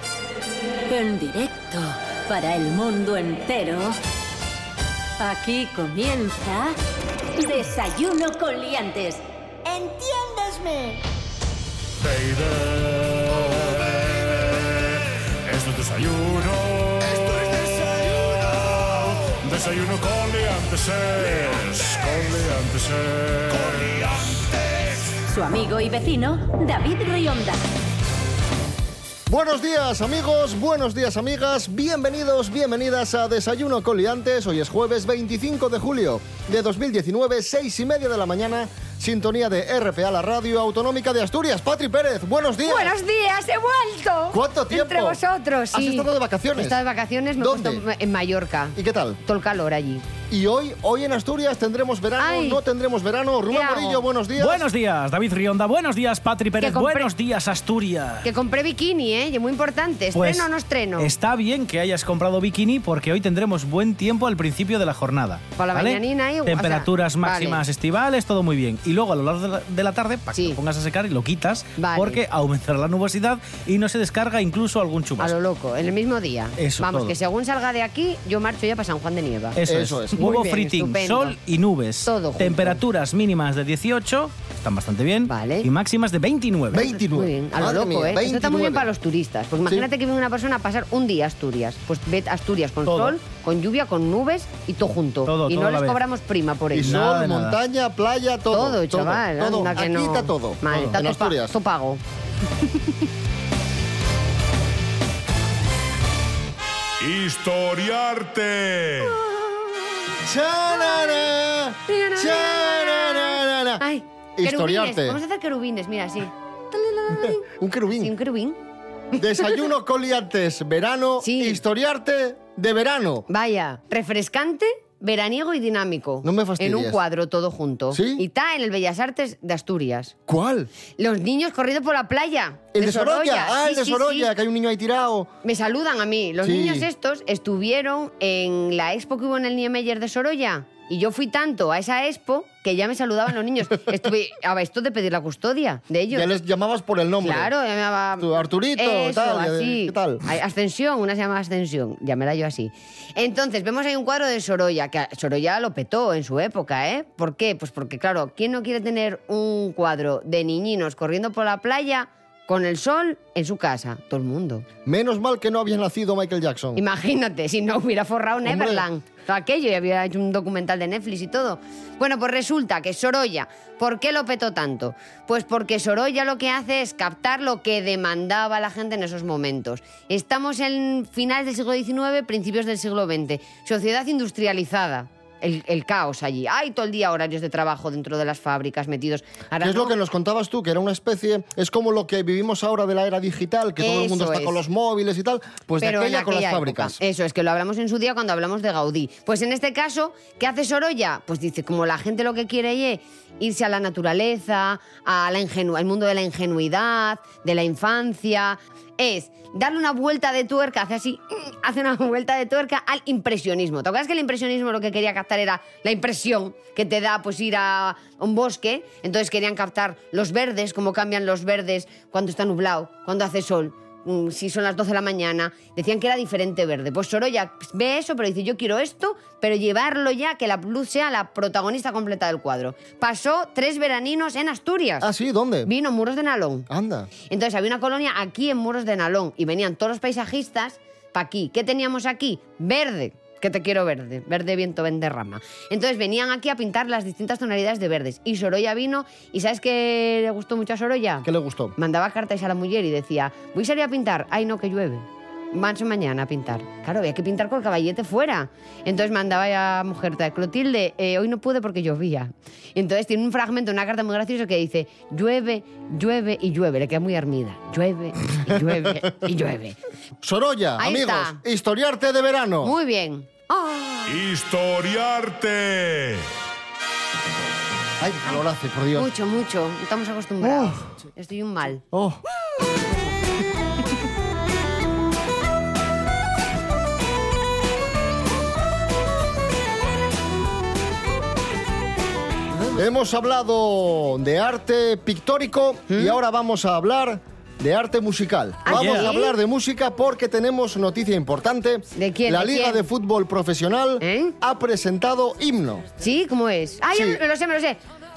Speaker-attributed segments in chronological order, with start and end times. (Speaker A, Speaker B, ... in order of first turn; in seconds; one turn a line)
Speaker A: 0.9-4.0
Speaker A: 5.2-6.8
Speaker A: 7.4-11.0
Speaker B: 12.0-24.1
Speaker A: 25.3-27.7
Speaker C: 29.3-42.9
Speaker D: 42.6-50.0
Speaker C: 44.3-45.2
Speaker C: 45.7-46.8
Speaker C: 47.4-47.8
Speaker C: 48.8-49.2
Speaker C: 50.3-54.7
Speaker D: 52.2-52.6
Speaker D: 53.5-54.0
Speaker E: 54.4-58.3
Speaker D: 56.6-57.1
Speaker D: 58.2-61.1
Speaker E: 60.1-75.3
Speaker D: 65.6-67.6
Speaker D: 70.3-70.6
Speaker D: 71.8-72.2
Speaker D: 75.2-79.6
Speaker E: 76.6-77.1
Speaker E: 79.5-86.9
Speaker C: 79.6-80.2
Speaker D: 80.2-81.3
Speaker D: 82.0-82.8
Speaker D: 85.3-85.7
Speaker C: 86.7-88.9
Speaker D: 86.8-97.0
Speaker E: 92.8-93.2
Speaker E: 95.2-96.0
Speaker C: 96.7-101.5
Speaker E: 96.8-97.6
Speaker D: 98.5-102.0
Speaker B: 107.0-109.2
Speaker C: 110.2-113.8
Speaker D: 110.7-111.3
Speaker D: 111.9-117.5
Speaker C: 114.4-115.2
Speaker C: 117.1-118.1
Speaker D: 118.0-118.6
Speaker C: 119.2-123.3
Speaker D: 121.2-121.6
Speaker D: 123.3-130.1
Speaker C: 126.2-127.0
Speaker C: 127.9-128.2
Speaker C: 130.3-130.7
Speaker D: 131.0-134.3
Speaker C: 132.7-135.3
Speaker D: 135.4-146.3
Speaker C: 136.4-136.9
Speaker C: 146.1-147.5
Speaker D: 147.2-164.7
Speaker C: 148.2-150.2
Speaker C: 164.8-166.8
Speaker D: 166.8-189.9
Speaker C: 168.4-168.8
Speaker C: 189.6-197.0
Speaker D: 193.8-194.6
Speaker D: 195.8-235.1
Speaker C: 235.0-235.7
Speaker D: 235.7-236.7
Speaker C: 236.7-237.1
Speaker D: 237.3-269.8
Speaker C: 251.2-251.7
Speaker C: 270.2-272.7
Speaker D: 270.8-271.4
Speaker D: 272.6-274.2
Speaker B: 274.1-276.3
Speaker C: 278.0-279.1
Speaker D: 278.9-281.8
Speaker C: 280.4-280.9
Speaker C: 281.9-282.2
Speaker C: 292.7-305.9
Speaker D: 295.9-296.2
Speaker D: 298.6-299.4
Speaker E: 298.7-299.1
Speaker D: 301.9-302.9
Speaker D: 304.0-304.3
Speaker D: 306.0-307.8
Speaker C: 306.9-307.2